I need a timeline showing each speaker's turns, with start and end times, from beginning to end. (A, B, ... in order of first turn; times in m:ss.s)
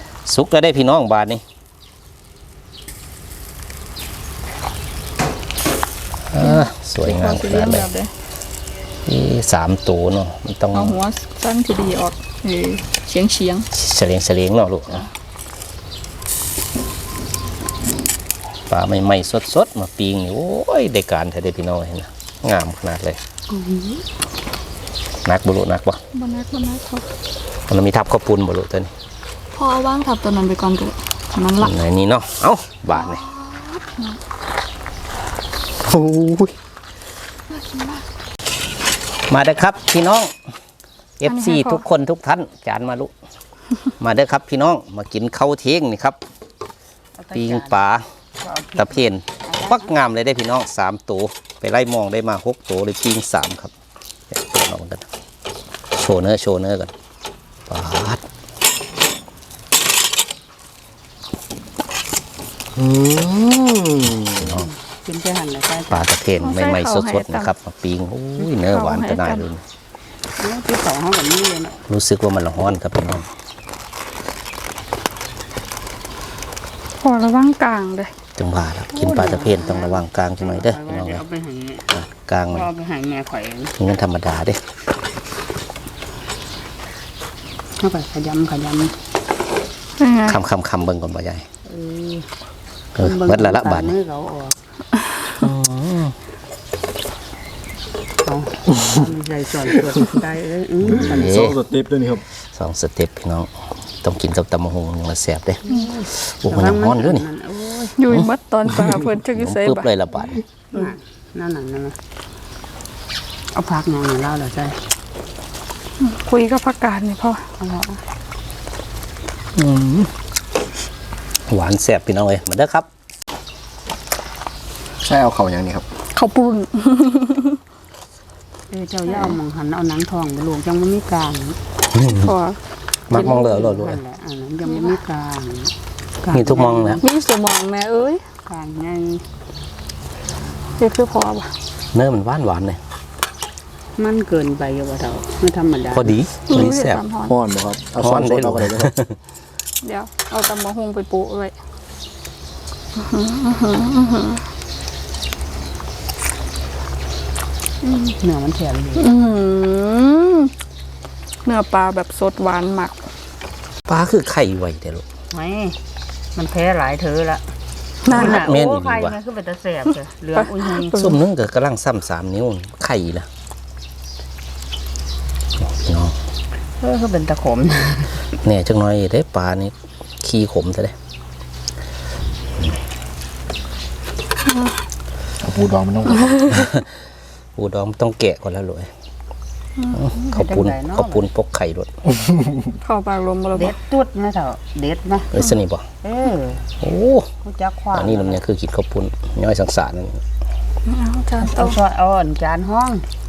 0:00.2-0:01.4 A
0:06.3-0:07.9 A
0:06.4-0:08.1 B
0:09.1-0:11.0 A
0:10.7-0:13.7 B
0:13.7-0:15.1 A
0:18.7-0:23.2 A
0:23.5-0:24.0 C
0:25.2-0:26.0 A
0:26.1-0:27.0 B
0:27.7-0:28.9 A
0:29.6-0:31.7 B
0:31.6-0:33.2 A
0:33.0-0:34.2 B
0:35.8-0:36.6 D
0:37.5-0:38.0 B
0:39.3-0:40.3 A
0:41.2-0:43.1 A
0:41.3-0:41.8 B
0:44.0-0:46.2 A
0:47.2-0:47.8 C
0:47.3-0:48.0 A
0:48.4-0:49.9 C
0:48.8-0:53.7 A
0:54.3-0:55.1 A
0:56.0-0:56.9 A
0:57.7-0:58.2 A
1:02.8-1:04.6 D
1:04.4-1:04.7 A
1:04.6-1:06.1 C
1:05.9-1:09.6 A
1:06.4-1:07.5 B
1:08.4-1:09.5 B
1:10.4-1:11.8 C
1:11.9-1:13.3 A
1:17.0-1:18.1 B
1:18.4-1:21.2 A
1:18.9-1:21.9 C
1:21.9-1:22.7 A
1:22.5-1:23.7 C
1:23.8-1:24.6 A
1:27.8-1:28.9 C
1:30.0-1:30.4 B
1:30.3-1:31.5 A
1:31.7-1:32.3 C
1:33.0-1:34.0 A
1:33.0-1:34.6 C
1:35.4-1:36.2 A
1:38.2-1:41.2 C
1:38.7-1:39.0 D
1:40.8-1:41.6 A
1:40.8-1:42.2 D
1:42.5-1:43.5 A
1:44.0-1:47.3 A
1:45.6-1:48.0 C
1:48.0-1:49.9 B
1:48.7-1:49.0 D
1:49.3-1:50.4 A
1:50.7-1:52.0 C
1:53.5-1:54.8 C
1:56.0-1:57.5 B
1:57.6-1:58.0 C
1:59.6-2:00.1 A
2:01.5-2:02.9 A
2:05.0-2:05.8 D
2:06.1-2:07.6 B
2:08.7-2:11.6 C
2:09.1-2:09.4 B
2:11.9-2:12.3 A
2:12.0-2:12.6 B
2:13.1-2:14.0 A
2:13.1-2:17.0 C
2:14.7-2:15.0 B
2:16.3-2:17.0 A
2:17.0-2:18.2 B
2:18.5-2:19.2 C
2:20.8-2:21.5 B
2:21.9-2:22.8 A
2:24.0-2:26.2 C
2:25.9-2:27.0 A
2:26.5-2:27.4 B
2:27.2-2:28.9 D
2:28.0-2:29.2 A
2:29.8-2:31.5 B
2:33.0-2:34.4 B
2:37.9-2:39.1 C
2:39.0-2:40.5 B
2:41.4-2:43.0 B
2:43.9-2:45.0 A
2:45.3-2:45.8 C
2:46.4-2:47.4 C
2:48.0-2:48.5 B
2:48.1-2:51.0 C
2:48.1-2:49.2 A
2:50.4-2:51.2 B
2:50.9-2:53.3 A
2:55.6-2:56.2 A
2:56.8-2:58.2 C
2:58.4-3:01.0 A
3:04.5-3:04.7 B
3:05.4-3:06.6 D
3:06.5-3:06.9 A
3:07.6-3:08.9 A
3:09.9-3:12.0 A
3:10.1-3:11.3 C
3:12.8-3:13.7 B
3:13.5-3:15.3 C
3:15.3-3:15.9 A
3:16.0-3:16.6 C
3:16.8-3:17.3 A
3:17.4-3:18.4 C
3:17.9-3:20.2 A
3:20.9-3:21.8 B
3:21.4-3:23.1 C